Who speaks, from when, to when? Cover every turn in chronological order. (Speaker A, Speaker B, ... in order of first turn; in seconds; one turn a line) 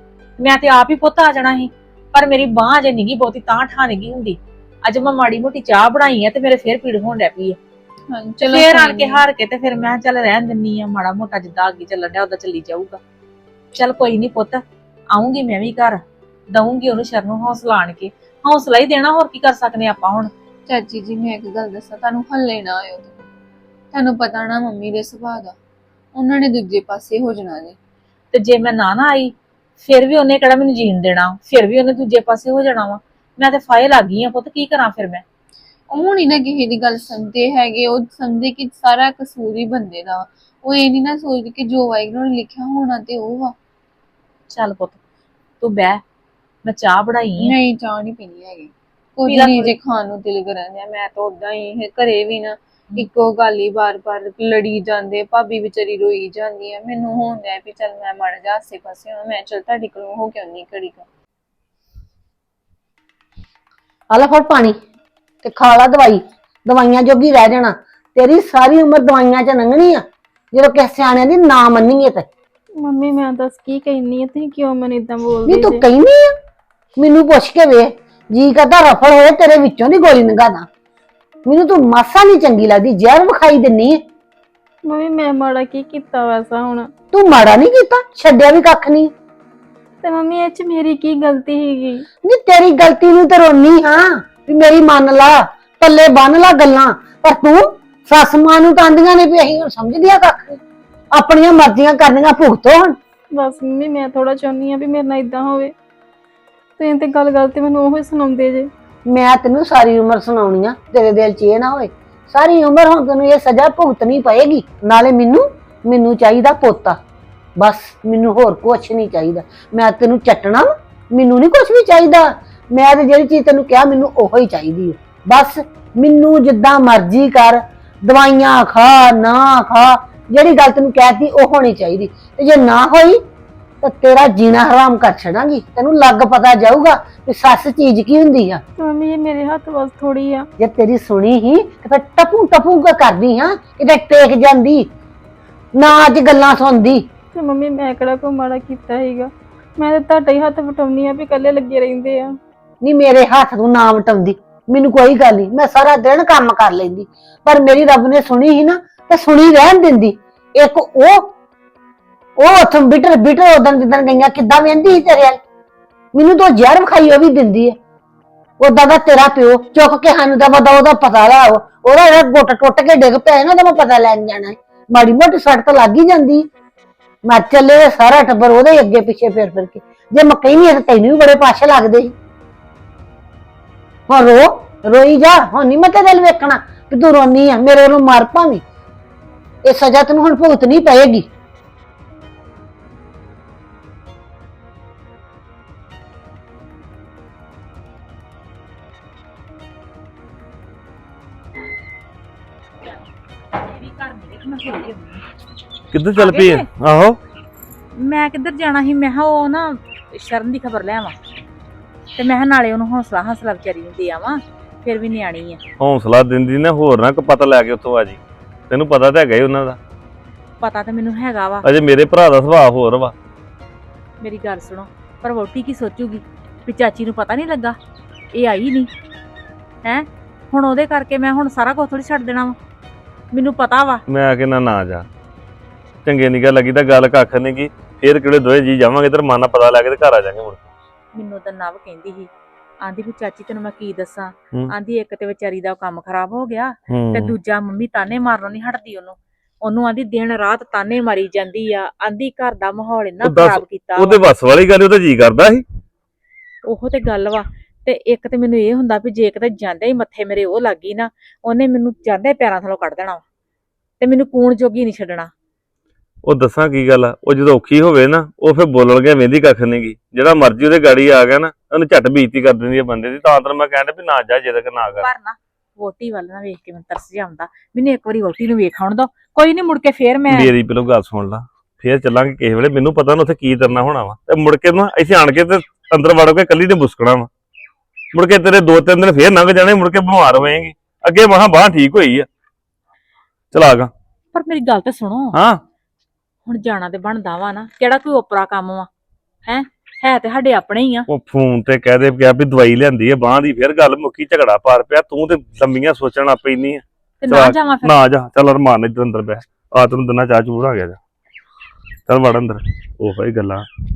Speaker A: 0.4-7.6
Speaker B: 8.1-9.3
Speaker A: 8.4-13.0
Speaker A: 13.8-14.6
Speaker A: 15.1-16.0
Speaker A: 16.5-20.3
Speaker B: 20.7-23.3
Speaker B: 23.9-25.5
Speaker B: 26.1-27.8
Speaker A: 28.3-35.2
Speaker B: 35.9-43.5
Speaker A: 44.5-45.0
Speaker A: 45.6-46.0
Speaker A: 46.6-47.5
Speaker B: 47.4-61.1
Speaker A: 49.3-49.7
Speaker C: 64.1-64.8
Speaker C: 65.4-72.3
Speaker D: 72.8-75.8
Speaker C: 75.5-76.3
Speaker C: 77.0-80.7
Speaker C: 81.5-84.0
Speaker D: 84.8-86.9
Speaker C: 87.1-89.1
Speaker D: 90.0-92.0
Speaker C: 92.2-100.6
Speaker C: 101.1-103.0
Speaker D: 103.3-105.7
Speaker D: 106.8-108.7
Speaker C: 109.1-117.0
Speaker C: 117.6-133.2
Speaker C: 133.8-138.6
Speaker D: 138.8-140.5
Speaker C: 140.6-144.9
Speaker C: 145.8-147.1
Speaker D: 147.3-152.4
Speaker C: 152.8-161.3
Speaker C: 162.4-165.4
Speaker C: 166.1-167.8
Speaker C: 168.6-176.5
Speaker C: 177.3-182.1
Speaker C: 184.1-188.6
Speaker C: 189.7-191.3
Speaker A: 203.6-205.2
Speaker E: 205.9-207.2
Speaker A: 206.2-206.7
Speaker A: 207.9-211.1
Speaker A: 212.2-215.6
Speaker E: 215.8-219.8
Speaker A: 220.6-221.7
Speaker E: 221.6-223.1
Speaker A: 224.2-227.8
Speaker A: 228.3-228.9
Speaker A: 229.8-232.6
Speaker A: 233.3-234.0
Speaker E: 234.1-235.1
Speaker E: 236.1-240.7
Speaker A: 241.2-242.3
Speaker A: 242.8-254.2
Speaker E: 246.9-247.3
Speaker E: 253.2-255.6
Speaker A: 256.7-263.2
Speaker A: 264.0-265.3
Speaker E: 266.2-275.1
Speaker A: 275.0-280.5
Speaker E: 280.3-287.3
Speaker E: 288.1-292.3
Speaker E: 293.5-293.9
Speaker A: 294.3-295.4
Speaker E: 295.3-295.6
Speaker A: 296.5-298.9
Speaker A: 299.5-301.1
Speaker E: 301.1-311.0
Speaker A: 307.2-308.0
Speaker E: 312.1-313.6